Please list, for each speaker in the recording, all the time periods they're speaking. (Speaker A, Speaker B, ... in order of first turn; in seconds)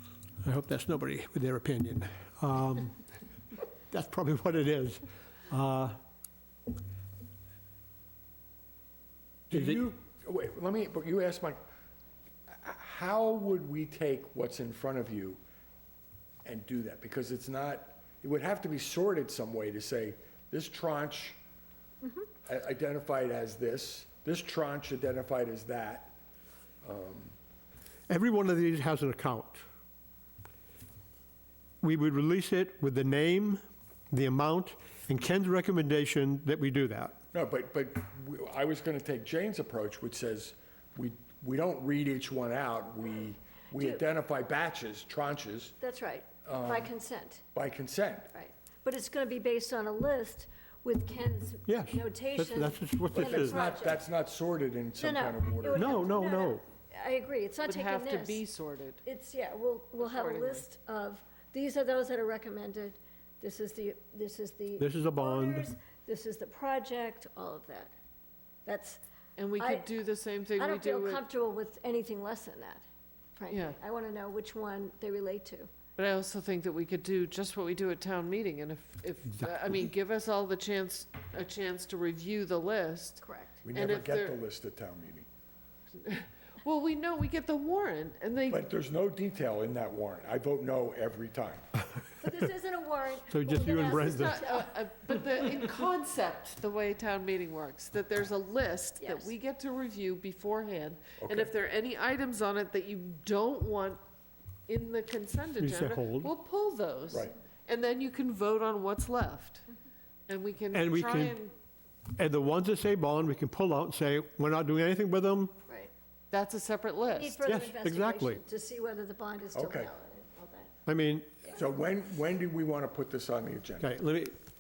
Speaker A: 0.4-3.0, 3.9-6.0, 9.5-9.9, 28.1-29.6, 31.8-37.2, 51.7-53.6, 55.7-56.6, 64.8-65.7, 93.3-94.5, 105.6-106.3, 110.7-111.4, 112.2-115.5, 117.4-118.4, 120.9-121.4, 123.8-124.4
Speaker B: 9.5-11.6, 12.5-15.4, 16.4-21.4, 22.4-26.1, 26.8-27.3, 37.3-45.8, 46.5-46.9, 47.5-48.3, 53.1-56.1, 83.6-85.3, 88.5-91.7, 101.2-101.5, 119.5-119.9, 121.5-124.0
Speaker C: 45.8-47.4, 48.3-54.0, 55.0-58.4, 59.0-67.9, 68.7-69.0, 69.6-69.9, 70.6-75.7, 83.2-83.6, 92.2-94.7, 99.0-99.3, 117.1-120.7
Speaker D: 57.6-59.0, 60.0-60.6, 69.4-71.2, 73.5-73.8, 76.0-84.4, 86.0-88.7, 93.8-104.0, 104.7-109.7, 110.3-111.5, 116.3-117.4